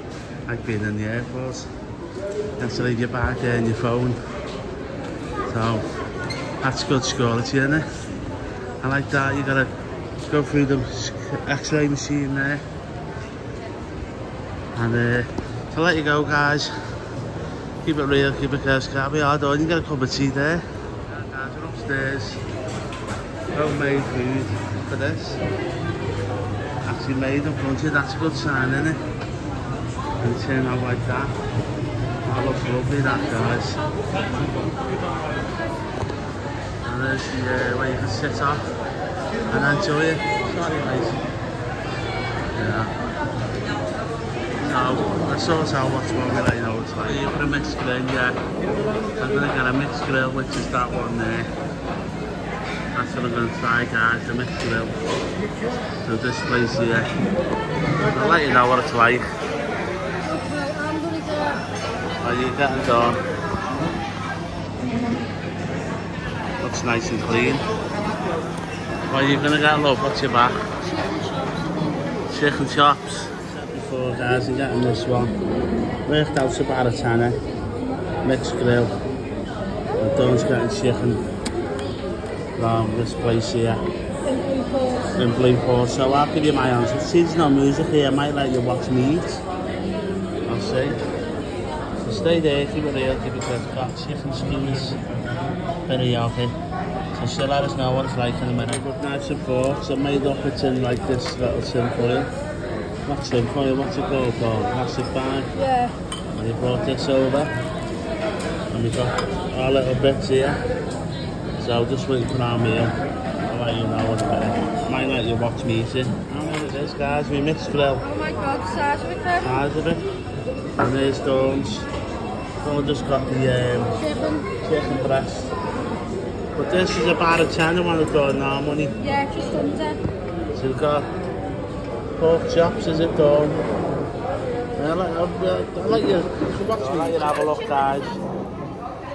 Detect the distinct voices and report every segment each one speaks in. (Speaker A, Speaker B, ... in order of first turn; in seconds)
Speaker A: 0.5-1.7, 2.6-4.2, 5.5-5.8, 6.6-7.9, 8.8-9.7, 10.3-12.6, 14.7-16.8, 17.8-22.4, 23.5-25.4, 26.9-29.0, 30.2-31.4, 32.3-33.8, 36.8-38.7, 39.5-41.2, 42.5-43.0, 44.6-48.4, 49.2-51.5, 53.0-55.0, 56.0-57.1, 58.0-59.3, 62.2-63.2, 66.6-67.7, 69.1-70.6, 72.3-75.3, 76.1-77.4, 78.2-78.9, 80.0-81.2, 82.6-83.8, 85.1-89.4, 90.5-91.0, 92.0-95.0, 95.9-96.6, 97.2-102.3, 103.1-105.5, 106.3-107.5, 108.7-110.6, 111.6-112.9, 113.5-118.0, 119.4-120.1, 120.8-121.9, 122.6-124.0, 124.6-125.5, 126.5-128.9, 130.6-131.1, 132.2-133.6, 134.8-138.2
Speaker B: 60.2-61.6, 70.8-72.3, 84.3-85.1, 105.5-106.0, 118.0-119.6, 124.0-124.5, 129.0-130.0